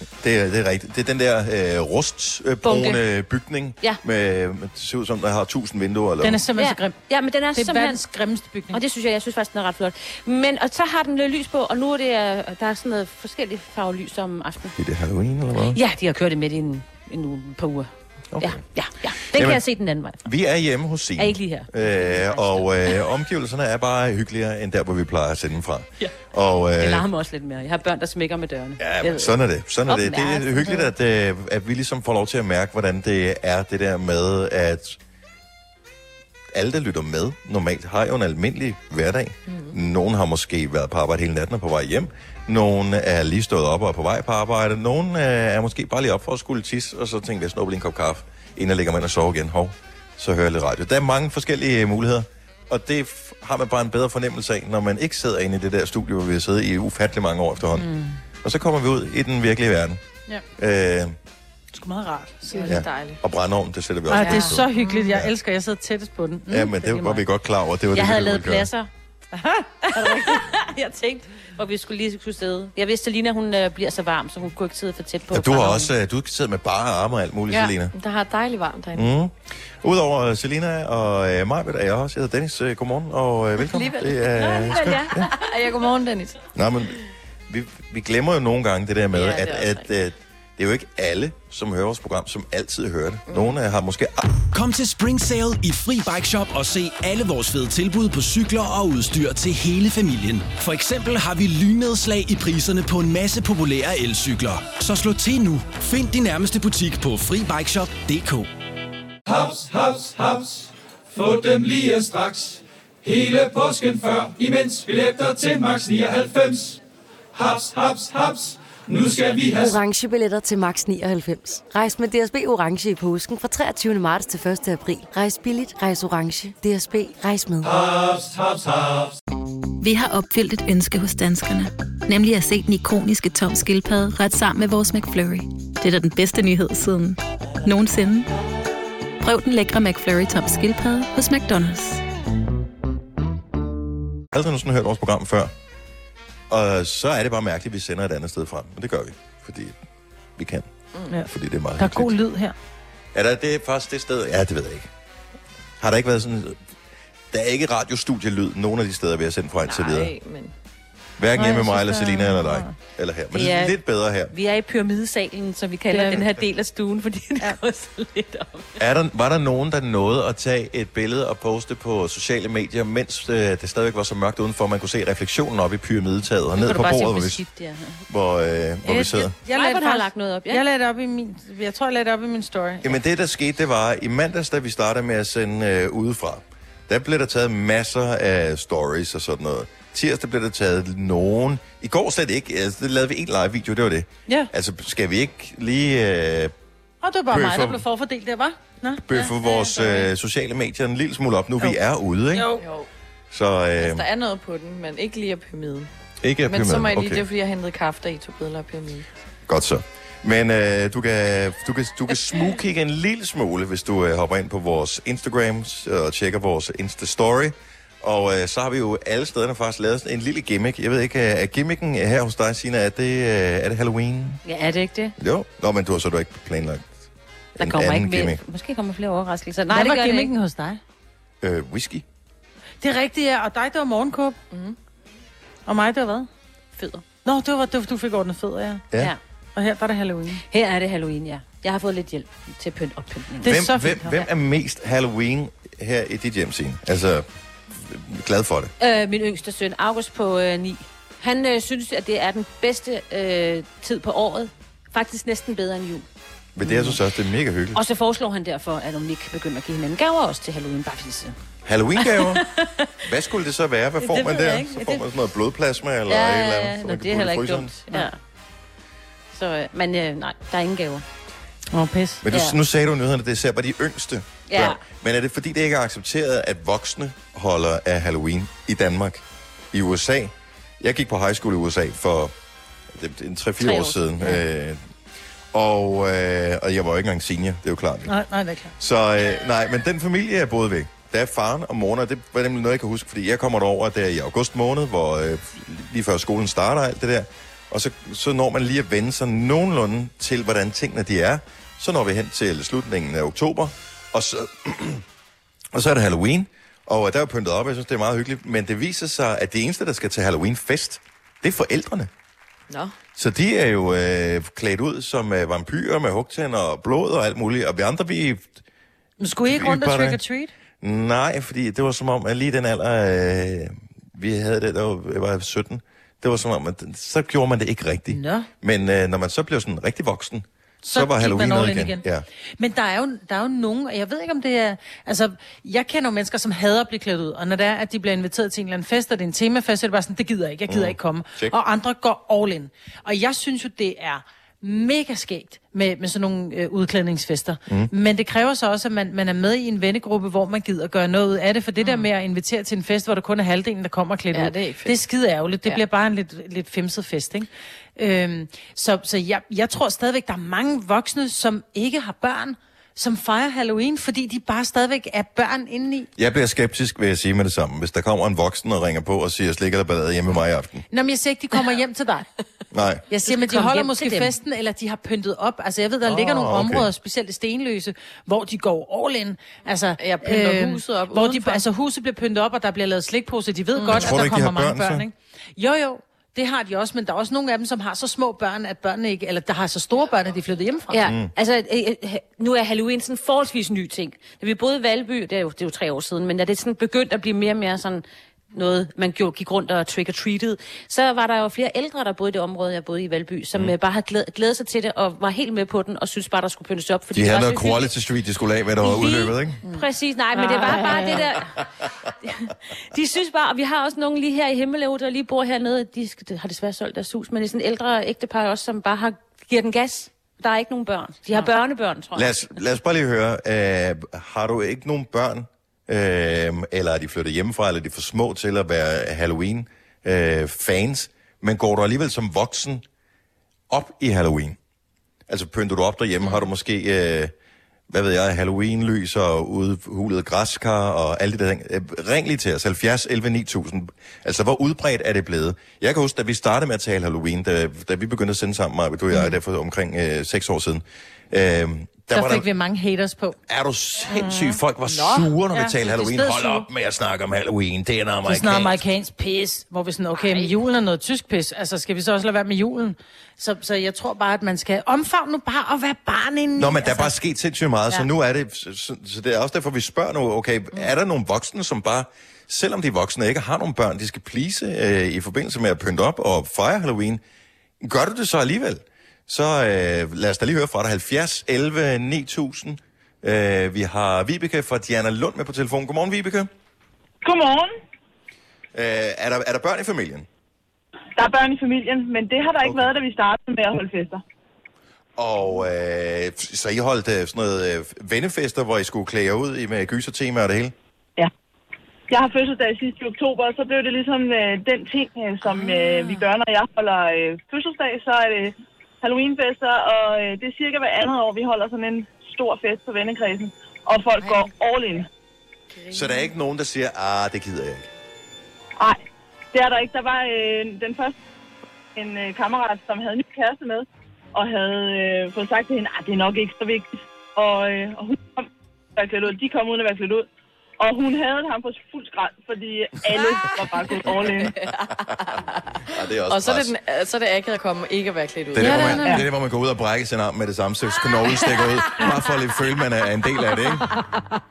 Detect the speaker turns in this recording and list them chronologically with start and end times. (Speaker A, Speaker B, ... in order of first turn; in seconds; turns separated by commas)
Speaker A: 0.2-6.5, Speaker B: 2.6-3.0, Speaker C: 6.2-7.0, Speaker B: 6.6-8.0, Speaker C: 7.5-8.8, Speaker B: 8.7-14.8, Speaker A: 14.8-15.8, Speaker B: 15.7-20.2, Speaker A: 18.3-18.6, Speaker A: 19.3-19.6, Speaker A: 20.2-27.1, Speaker B: 21.2-23.0, Speaker B: 26.8-29.3, Speaker A: 28.8-35.0, Speaker B: 29.8-30.9, Speaker A: 36.5-57.9, Speaker D: 39.5-39.7, Speaker C: 57.8-58.2, Speaker A: 58.4-60.0, Speaker A: 60.6-61.1, Speaker C: 61.7-62.8, Speaker D: 62.5-63.2, Speaker A: 62.6-65.3, Speaker C: 64.1-67.2, Speaker B: 64.2-64.9, Speaker A: 66.5-68.7, Speaker B: 67.9-68.9, Speaker C: 69.3-70.4, Speaker B: 69.9-75.9, Speaker A: 75.3-77.9, Speaker D: 77.5-79.1, Speaker A: 78.9-85.3, Speaker B: 83.8-85.3, Speaker D: 84.6-86.4, Speaker A: 86.5-94.4, Speaker D: 89.1-89.9, Speaker D: 93.3-93.5, Speaker E: 94.5-98.8, Speaker E: 99.6-101.1, Speaker E: 102.1-103.7, Speaker E: 104.2-105.5, Speaker E: 106.0-108.3, Speaker F: 109.3-116.8, Speaker F: 117.3-119.8, Speaker G: 119.6-127.7, Speaker F: 127.6-129.2, Speaker H: 129.8-138.3, Speaker H: 139.2-142.0, Speaker A: 144.3-145.5, Speaker A: 146.5-149.8, Speaker A: 150.4-152.1, Speaker C: 151.1-152.5, Speaker A: 153.1-154.9, Speaker A: 155.8-156.6, Speaker A: 157.3-160.1, Speaker D: 159.7-160.5, Speaker A: 161.2-164.3, Speaker C: 161.3-162.7, Speaker B: 163.3-163.8, Speaker B: 164.3-168.7, Speaker A: 168.8-177.4, Speaker B: 176.6-178.0, Speaker A: 178.1-179.3, Speaker C: 178.8-182.9, Speaker B: 179.5-180.6, Speaker A: 182.8-196.5, Speaker C: 197.0-200.1, Speaker A: 197.3-197.8, Speaker A: 199.0-202.5, Speaker C: 202.3-202.6, Speaker D: 202.6-202.8, Speaker A: 203.3-204.1, Speaker D: 203.8-205.9, Speaker A: 206.2-207.2, Speaker D: 206.4-209.1, Speaker A: 209.4-224.4, Speaker B: 224.4-225.1, Speaker A: 225.2-226.9, Speaker A: 227.6-228.4, Speaker B: 227.6-230.3, Speaker C: 229.7-230.8, Speaker A: 231.4-232.0, Speaker C: 232.8-234.4, Speaker D: 234.5-234.8, Speaker C: 235.7-236.3, Speaker B: 236.8-237.0, Speaker C: 237.2-238.8, Speaker C: 239.5-240.4, Speaker B: 240.5-243.6, Speaker A: 243.4-248.7, Speaker C: 243.4-244.2, Speaker B: 248.8-256.0, Speaker A: 256.6-257.8, Speaker B: 256.6-257.0, Speaker B: 257.7-261.3, Speaker A: 261.6-262.4, Speaker B: 262.0-262.9, Speaker A: 263.0-267.7, Speaker B: 264.0-265.0, Speaker B: 266.1-268.2, Speaker B: 269.3-271.0, Speaker C: 271.7-272.2, Speaker A: 272.2-282.3, Speaker B: 272.3-272.6, Speaker B: 274.5-274.8, Speaker A: 282.9-284.8, Speaker B: 283.6-284.4, Speaker A: 285.5-288.1, Speaker C: 288.1-288.7, Speaker A: 288.8-305.0, Speaker A: 305.7-312.1, Speaker D: 312.7-312.9, Speaker A: 313.1-318.6, Speaker C: 319.2-320.5, Speaker A: 319.4-320.2, Speaker A: 320.8-332.2, Speaker C: 328.1-328.5, Speaker C: 330.8-332.1, Speaker C: 332.6-366.1, Speaker A: 340.7-341.5, Speaker D: 354.3-355.0, Speaker A: 366.1-370.8, Speaker C: 370.9-372.3, Speaker A: 372.7-373.0, Speaker C: 373.1-391.1, Speaker B: 373.2-374.3, Speaker A: 376.0-376.9, Speaker D: 380.0-381.6, Speaker D: 383.7-384.1, Speaker A: 383.9-385.0, Speaker B: 390.9-407.9, Speaker A: 391.1-391.3, Speaker A: 407.1-409.6, Speaker B: 408.8-411.6, Speaker C: 410.4-411.1, Speaker B: 412.2-422.4, Speaker A: 422.1-432.8, Speaker A: 433.7-434.6, Speaker A: 435.3-437.3, Speaker A: 437.9-452.4, Speaker C: 452.1-453.4, Speaker A: 453.5-458.8, Speaker C: 454.1-456.7, Speaker C: 458.2-467.1, Speaker A: 466.6-477.2, Speaker A: 477.8-486.5, Speaker I: 487.2-487.7, Speaker A: 488.7-490.3, Speaker I: 491.1-494.2, Speaker A: 492.6-492.9, Speaker A: 495.2-500.7, Speaker I: 502.1-515.1, Speaker A: 515.9-517.9, Speaker I: 519.5-521.2, Speaker I: 521.9-530.2, Speaker I: 530.8-534.5, Speaker A: 535.9-536.7, Speaker D: 536.3-539.1, Speaker A: 538.5-543.9, Speaker C: 538.6-539.2